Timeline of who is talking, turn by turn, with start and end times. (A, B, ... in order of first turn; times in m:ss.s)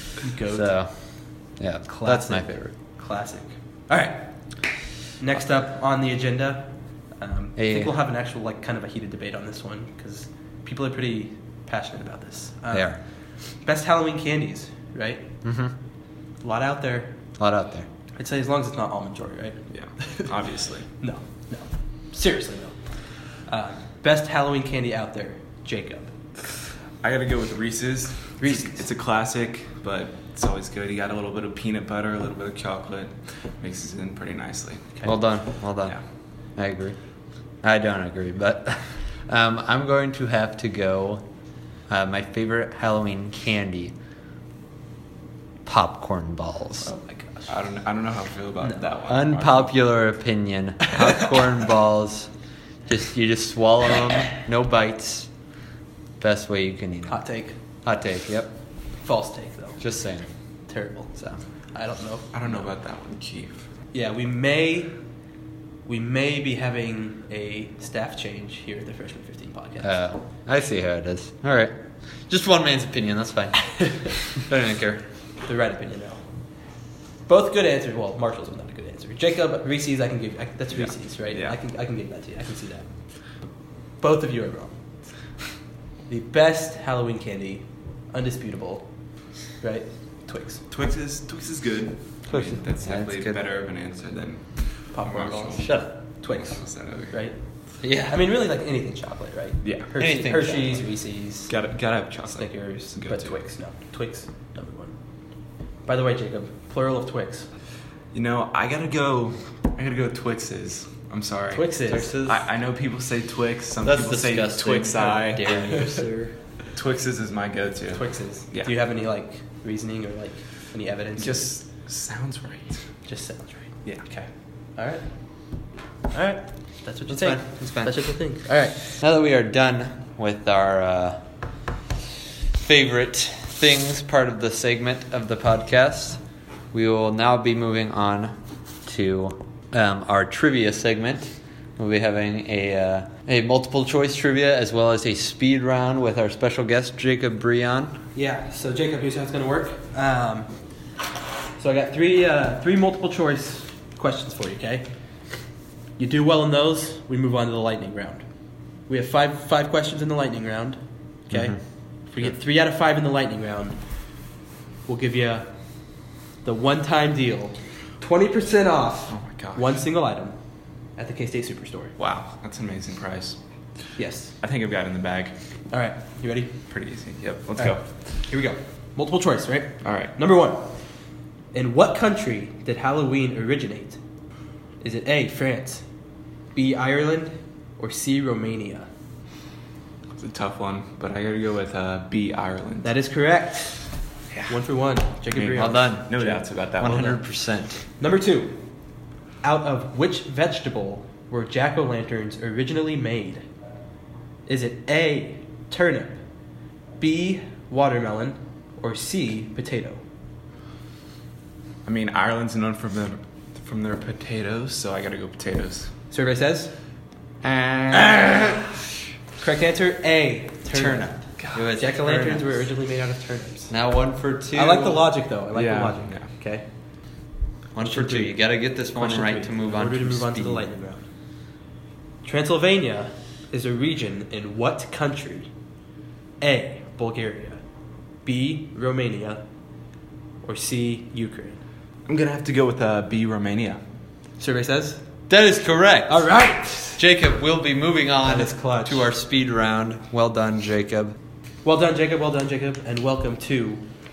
0:00.2-0:00.7 A
0:00.5-0:02.7 B
0:01.9-0:04.3 A
0:05.2-0:12.9 A
0:07.6-0:07.9 B
0:12.7-0:13.0 B
0:13.6-0:15.3 A
0:15.4-0:15.7 B
0:16.4-0:17.1 A
0:17.4-0:17.9 B
0:18.2-0:20.3 A
0:19.7-0:20.9 C
0:21.0-0:22.8 A
0:23.4-0:26.1 A
0:27.0-0:35.0 C
0:28.4-0:28.9 A
0:35.0-0:36.0 B
0:36.6-0:37.0 B
0:37.6-0:41.2 B
0:41.9-0:43.9 B
0:45.6-0:46.9 B
0:46.8-0:47.5 A
0:47.5-0:49.7 C
0:49.1-0:52.3 B
0:52.9-0:55.3 B
0:56.2-0:57.2 B
0:57.1-0:57.5 A
0:57.8-0:58.5 B
0:59.0-0:59.8 A
0:59.8-1:00.3 B
1:00.7-1:01.2 A
1:01.7-1:02.7 A
1:02.3-1:03.6 C
1:03.9-1:05.0 A
1:05.8-1:10.0 A
1:09.8-1:11.7 B
1:12.3-1:15.0 B
1:15.4-1:16.2 A
1:17.3-1:22.9 A
1:20.7-1:21.6 C
1:24.0-1:24.8 A
1:26.1-1:28.9 A
1:29.6-1:30.6 A
1:30.7-1:37.2 C
1:32.3-1:33.4 B
1:34.9-1:37.4 A
1:35.6-1:35.9 B
1:37.8-1:38.2 B
1:38.0-1:41.6 A
1:39.6-1:39.9 C
1:40.0-1:40.8 B
1:41.5-1:43.3 C
1:42.2-1:45.0 A
1:45.8-1:47.5 A
1:48.1-1:55.6 C
1:51.5-1:52.2 A
1:51.9-1:52.4 B
1:53.8-1:56.3 B
1:55.7-1:56.0 A
1:56.7-1:58.7 C
1:57.9-2:01.5 A
2:01.2-2:02.8 C
2:03.0-2:05.1 A
2:06.1-2:08.9 A
2:07.1-2:08.0 B
2:09.0-2:11.2 B
2:12.5-2:16.2 B
2:16.7-2:28.0 B
2:28.1-2:30.5 A
2:31.6-2:34.8 A
2:36.0-2:38.2 A
2:38.9-2:43.8 A
2:44.9-2:45.5 A
2:46.4-2:50.3 A
2:49.1-2:49.8 C
2:51.0-2:51.9 A
2:52.0-2:53.4 C
2:54.0-2:54.3 A
2:54.4-2:55.3 C
2:55.7-2:56.5 A
2:56.7-2:57.8 C
2:57.6-3:00.7 A
2:59.8-3:00.1 C
3:01.5-3:04.0 A
3:04.8-3:05.8 A
3:06.5-3:08.9 A
3:10.2-3:12.9 C
3:12.8-3:13.8 A
3:14.5-3:17.2 A
3:15.3-3:17.2 C
3:15.6-3:16.2 B
3:16.8-3:17.8 B
3:18.0-3:18.6 A
3:19.4-3:23.4 A
3:24.4-3:26.2 A
3:27.0-3:30.0 A
3:31.8-3:35.9 C
3:36.1-3:36.7 A
3:37.7-3:38.1 C
3:39.4-3:41.2 A
3:40.7-3:41.7 C
3:41.5-3:42.5 B
3:41.8-3:43.7 A
3:43.7-3:45.1 B
3:44.5-3:46.6 A
3:45.5-3:46.2 C
3:47.7-3:50.7 B
3:47.8-3:48.4 A
3:48.9-3:51.0 A
3:52.2-3:55.5 A
3:56.4-3:57.6 A
3:58.2-3:59.4 A
4:00.4-4:01.6 A
4:02.0-4:03.8 C
4:04.4-4:05.0 A
4:05.3-4:06.4 B
4:06.1-4:07.0 A
4:07.0-4:11.2 B
4:08.2-4:09.1 A
4:11.6-4:13.8 A